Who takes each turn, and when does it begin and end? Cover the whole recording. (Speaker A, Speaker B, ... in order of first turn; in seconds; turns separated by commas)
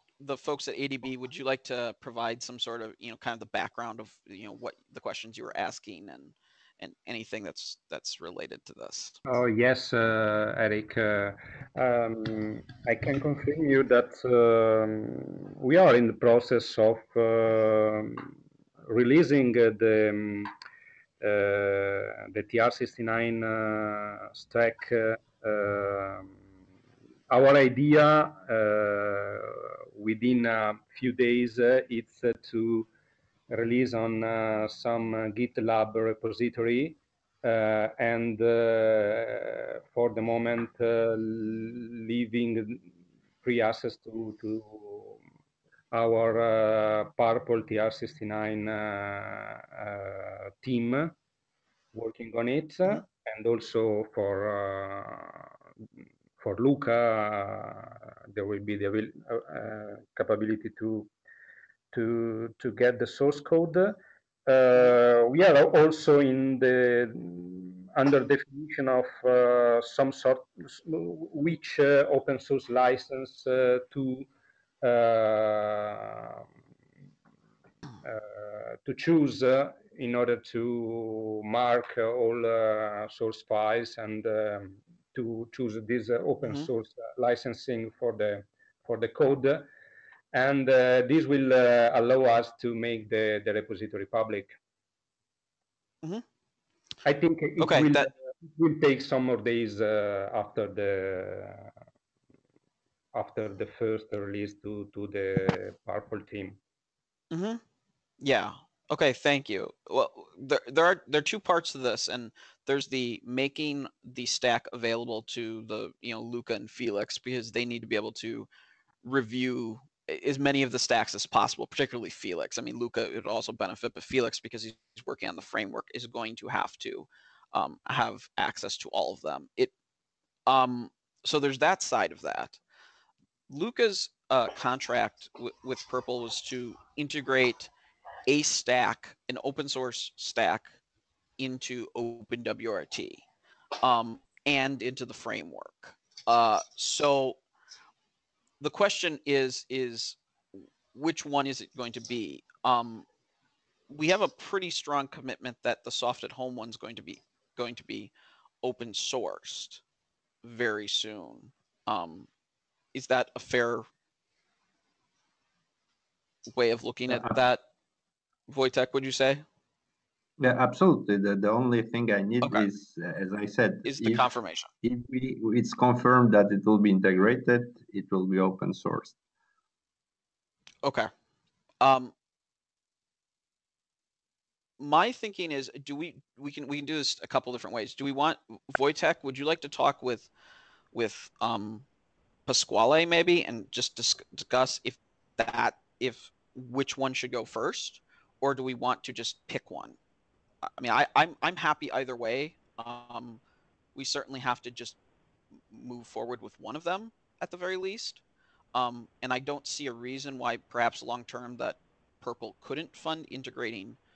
Speaker A: 0.2-9.2, Speaker B: 9.3-18.3, Speaker B: 18.9-20.5, Speaker B: 21.2-26.3, Speaker B: 27.3-32.9, Speaker B: 33.5-42.9, Speaker B: 43.4-45.1, Speaker B: 45.9-51.1, Speaker B: 51.9-55.4, Speaker B: 56.4-61.1, Speaker B: 61.9-74.3, Speaker B: 74.8-76.4, Speaker B: 78.0-89.7, Speaker A: 86.4-86.7, Speaker B: 90.3-94.5, Speaker B: 97.0-101.7, Speaker A: 97.6-98.1, Speaker B: 103.1-106.6, Speaker A: 107.3-107.6, Speaker A: 108.2-118.5, Speaker A: 119.0-129.7, Speaker A: 130.5-132.6, Speaker A: 133.5-137.7, Speaker A: 138.2-140.8, Speaker A: 141.4-143.2, Speaker A: 143.8-147.4, Speaker A: 148.6-150.2, Speaker A: 150.9-153.1, Speaker A: 153.9-158.1, Speaker A: 158.6-159.8, Speaker A: 160.4-162.3, Speaker A: 162.9-163.9, Speaker A: 166.5-167.6, Speaker C: 167.1-167.3, Speaker A: 168.5-169.4, Speaker C: 170.4-174.3, Speaker A: 172.4-172.7, Speaker A: 173.8-174.7, Speaker C: 174.8-179.2, Speaker A: 180.8-181.1, Speaker A: 181.8-182.1, Speaker A: 184.8-190.3, Speaker A: 190.9-191.9, Speaker A: 192.5-200.0, Speaker A: 200.8-203.4, Speaker A: 203.9-205.0, Speaker A: 205.7-208.2, Speaker A: 208.8-214.0